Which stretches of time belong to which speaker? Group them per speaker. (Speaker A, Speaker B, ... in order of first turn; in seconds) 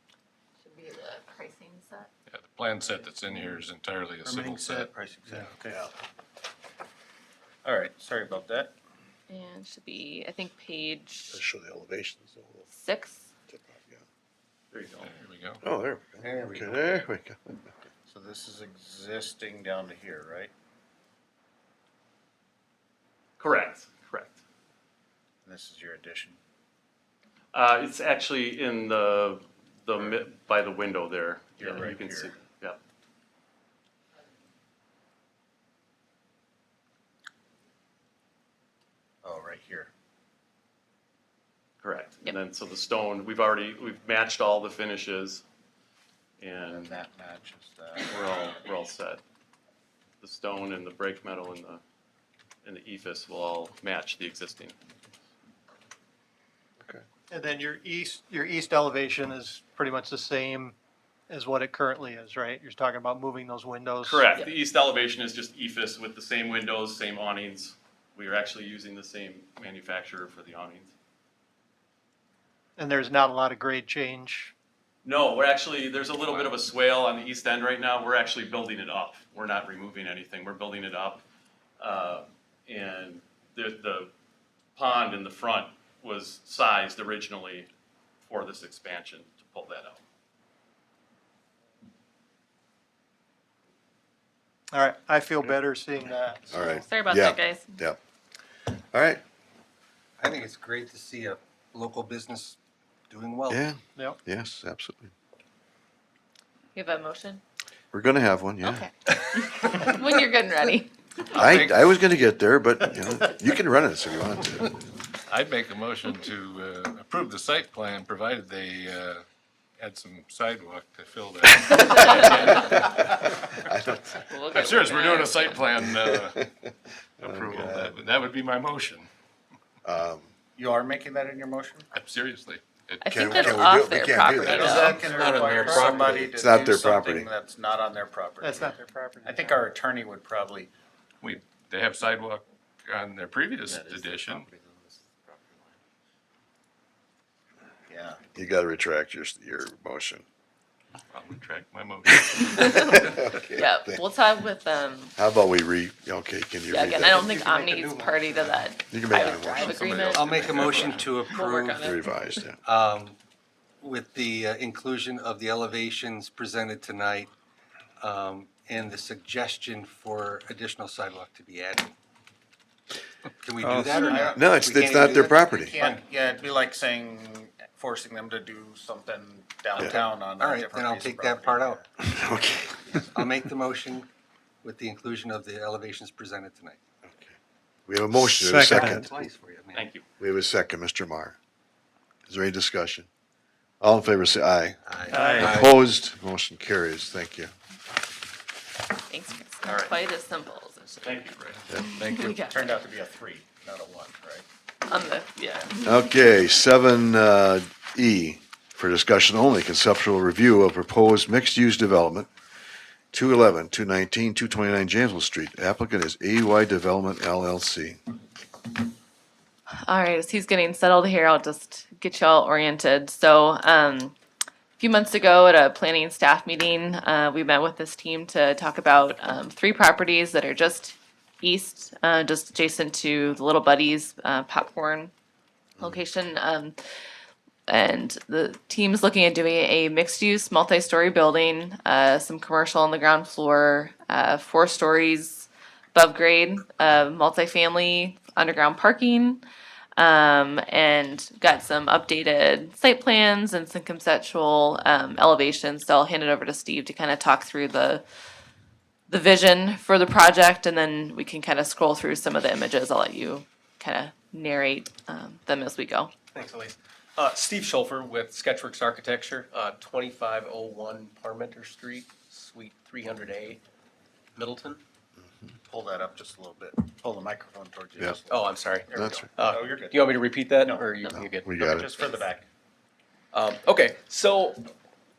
Speaker A: 0.6-2.1, 9.3-11.4, 12.7-13.3, 96.6-97.8, 106.7-107.4, 108.6-110.9, 124.3-125.6, 133.0-135.0, 152.5-155.1, 156.7-162.4, 199.1-201.1, 201.8-202.8, 204.8-206.0, 219.8-224.2, 224.8-235.1, 235.8-236.8, 237.7-249.4, 250.0-258.0, 259.1-266.1
Speaker B: 2.3-4.9, 15.0-15.6, 111.3-111.8, 115.3-119.2, 119.8-123.5, 124.5-126.5, 127.2-129.1, 131.9-133.5, 141.2-144.5, 151.1-153.1, 159.5-161.2
Speaker C: 4.2-5.9, 7.6-8.7, 16.2-16.9, 18.1-20.5, 25.4-26.4, 31.6-32.4, 39.2-39.9, 46.7-48.3, 130.5-131.9, 134.6-140.7, 143.6-145.0, 147.9-148.2, 173.8-174.5, 175.6-181.8, 202.4-204.4, 275.6-280.9, 281.4-282.4
Speaker D: 11.3-12.7, 13.5-14.0, 15.6-17.6, 96.5-98.0, 98.9-99.2, 103.5-105.1, 107.9-108.9, 111.3-114.7, 122.5-123.0, 123.7-124.2, 125.8-126.5, 127.2-128.1, 129.8-130.3, 133.1-134.8, 136.2-137.3, 148.3-150.2, 152.6-154.0, 155.2-157.3, 158.9-159.9, 161.8-162.6, 174.3-175.8, 182.0-183.1, 187.0-187.3, 187.9-189.2, 190.2-191.3, 192.3-193.1, 193.8-197.5, 201.7-202.3, 205.8-212.3, 213.1-218.0, 235.8-236.0, 278.9-279.3, 281.1-281.9
Speaker E: 14.7-15.1, 23.4-24.4, 27.5-32.8, 41.8-45.4, 46.4-46.9, 48.0-49.2, 50.2-51.8, 52.6-54.7, 64.0-70.9, 75.0-81.2, 81.8-84.1, 84.8-87.7, 88.2-90.0, 189.7-190.0, 199.6-199.9, 201.0-201.6
Speaker F: 57.3-60.8, 61.3-64.3, 72.8-74.5, 94.7-96.7, 138.4-139.6, 173.6-174.1, 188.2-189.0, 195.1-195.6
Speaker G: 100.2-102.6, 103.1-103.7, 157.1-158.6, 160.1-161.9, 162.6-163.2, 163.8-167.3, 168.0-171.9, 173.4-176.0, 179.8-181.8, 183.1-184.1, 184.6-186.8, 188.6-189.9, 194.8-195.4
Speaker H: 134.5-136.3, 195.4-195.7, 266.3-273.6, 274.4-274.8, 278.3-281.5, 283.3-284.7